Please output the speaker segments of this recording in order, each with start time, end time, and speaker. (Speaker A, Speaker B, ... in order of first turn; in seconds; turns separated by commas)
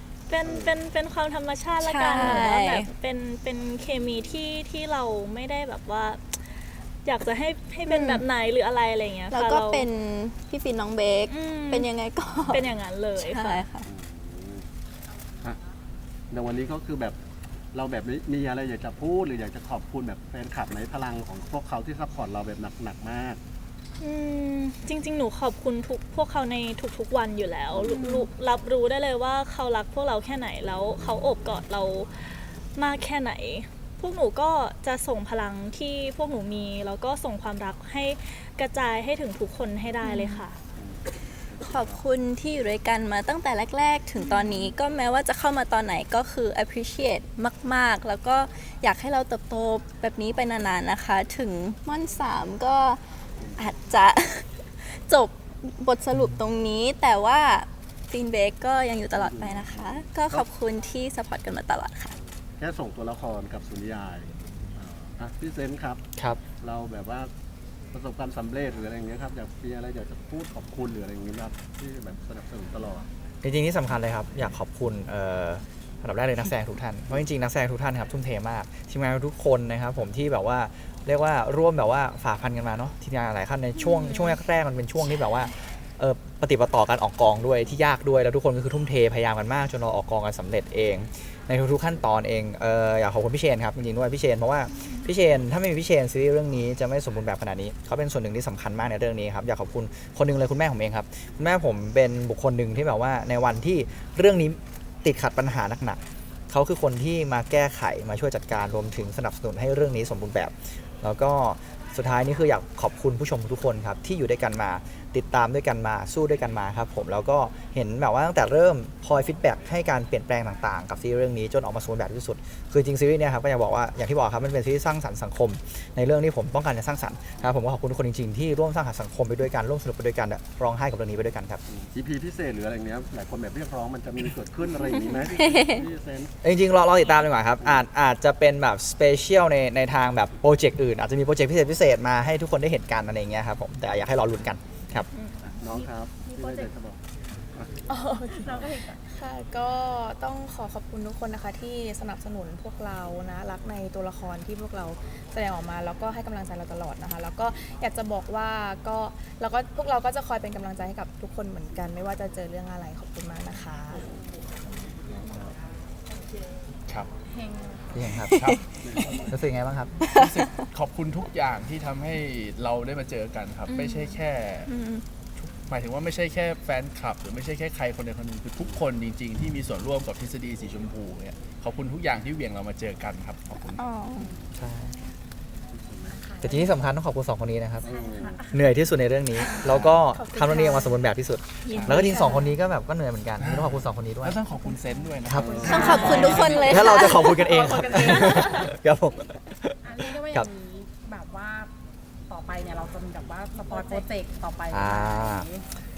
Speaker A: 0.3-9.9, Speaker B: 0.4-0.7, Speaker C: 1.8-2.9, Speaker B: 4.0-4.3, Speaker C: 7.9-8.2, Speaker C: 9.3-13.9, Speaker A: 11.3-11.9, Speaker A: 12.5-13.6, Speaker B: 13.8-14.7, Speaker B: 16.3-17.2, Speaker B: 17.7-23.4, Speaker A: 24.0-40.6, Speaker B: 27.7-28.1, Speaker C: 40.0-40.4, Speaker B: 40.8-42.0, Speaker C: 41.6-53.0, Speaker A: 44.2-44.7, Speaker B: 53.4-53.7, Speaker C: 53.6-62.1, Speaker D: 56.1-56.4, Speaker B: 59.1-60.5, Speaker B: 62.6-66.0, Speaker B: 66.6-67.3, Speaker B: 67.9-73.1, Speaker D: 73.4-131.6, Speaker B: 131.7-136.3, Speaker C: 134.9-135.8, Speaker D: 136.4-145.1, Speaker B: 137.6-137.8, Speaker A: 145.1-145.5, Speaker E: 145.6-146.7, Speaker B: 145.6-147.0, Speaker F: 147.9-164.1, Speaker E: 148.3-149.0, Speaker B: 163.9-164.5, Speaker B: 165.1-165.5, Speaker E: 167.3-168.1, Speaker D: 167.9-168.3, Speaker G: 168.3-169.2, Speaker B: 168.8-169.3, Speaker D: 169.3-169.9, Speaker C: 170.0-170.6, Speaker G: 170.2-174.7, Speaker A: 173.7-174.2, Speaker C: 174.7-175.0, Speaker G: 175.4-183.9, Speaker B: 178.6-178.8, Speaker C: 183.8-184.3, Speaker B: 184.2-184.5, Speaker D: 184.5-184.9, Speaker B: 185.7-186.2, Speaker E: 186.1-186.8, Speaker D: 186.4-187.9, Speaker E: 187.8-188.8, Speaker B: 187.8-188.5, Speaker D: 188.5-194.4, Speaker E: 189.4-189.7, Speaker G: 189.7-190.0, Speaker F: 190.1-191.0, Speaker A: 191.7-192.4, Speaker G: 191.7-192.1, Speaker F: 192.1-192.4, Speaker G: 193.4-196.8, Speaker E: 194.7-196.6, Speaker D: 195.2-195.5, Speaker B: 195.5-195.9, Speaker C: 195.7-197.2, Speaker F: 195.9-196.4, Speaker D: 196.6-200.5, Speaker E: 197.2-198.2, Speaker F: 197.3-198.4, Speaker E: 199.8-201.7, Speaker E: 202.3-205.7, Speaker F: 203.7-204.0, Speaker D: 204.7-205.5